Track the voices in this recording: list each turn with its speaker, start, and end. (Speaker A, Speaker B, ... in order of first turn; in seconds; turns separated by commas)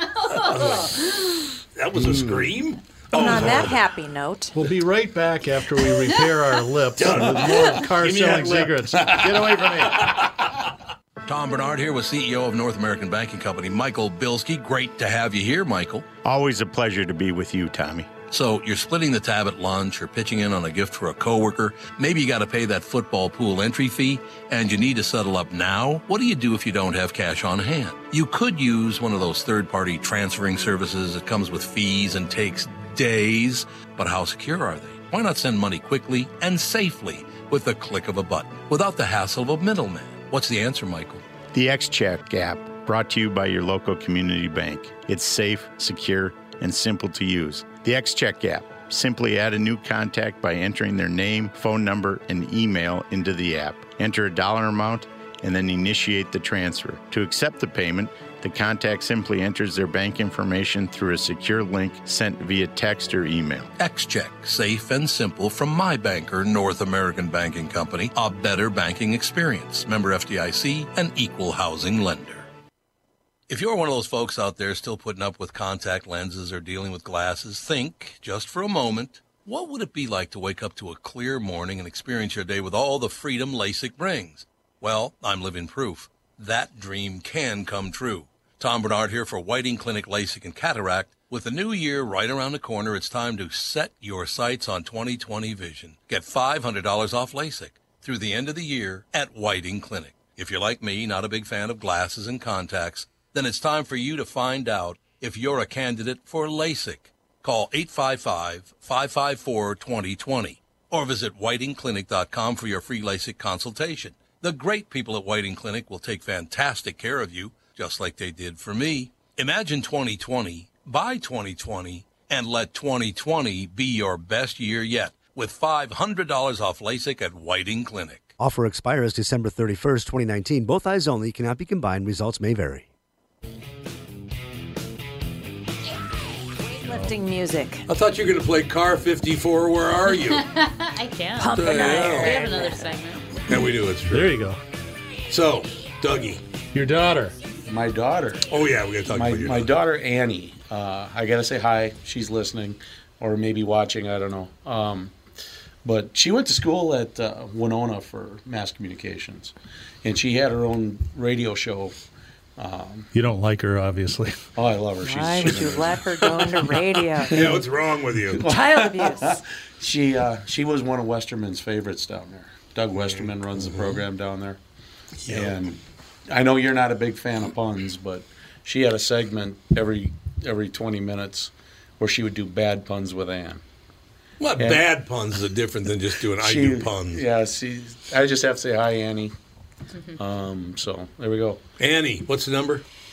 Speaker A: 0.2-1.0, Speaker B: 0.2-3.8, Speaker C: 2.0-2.2, Speaker D: 3.1-4.6, Speaker E: 4.5-10.1, Speaker B: 7.0-10.3, Speaker F: 11.2-16.1, Speaker G: 16.2-18.1, Speaker F: 18.3-41.2, Speaker G: 41.5-63.7, Speaker F: 63.8-72.5, Speaker F: 73.5-128.3, Speaker H: 128.4-132.9, Speaker D: 136.8-137.8, Speaker B: 137.9-140.4, Speaker A: 140.2-143.4, Speaker D: 141.4-142.8, Speaker B: 141.5-142.5, Speaker B: 143.5-144.4, Speaker E: 144.1-144.6, Speaker B: 145.3-146.4, Speaker E: 146.7-147.3, Speaker C: 147.7-148.5, Speaker B: 148.5-149.7, Speaker C: 149.1-155.1, Speaker C: 155.8-161.9, Speaker C: 162.6-163.1, Speaker E: 163.1-164.4, Speaker C: 164.6-167.6, Speaker D: 165.0-167.4, Speaker B: 167.3-168.4, Speaker C: 168.2-174.6, Speaker D: 168.5-169.4, Speaker B: 173.0-174.0, Speaker B: 175.2-175.5, Speaker C: 175.3-183.6, Speaker B: 184.4-187.2, Speaker C: 184.6-184.8, Speaker C: 186.4-189.3, Speaker C: 190.2-191.6, Speaker B: 191.8-192.8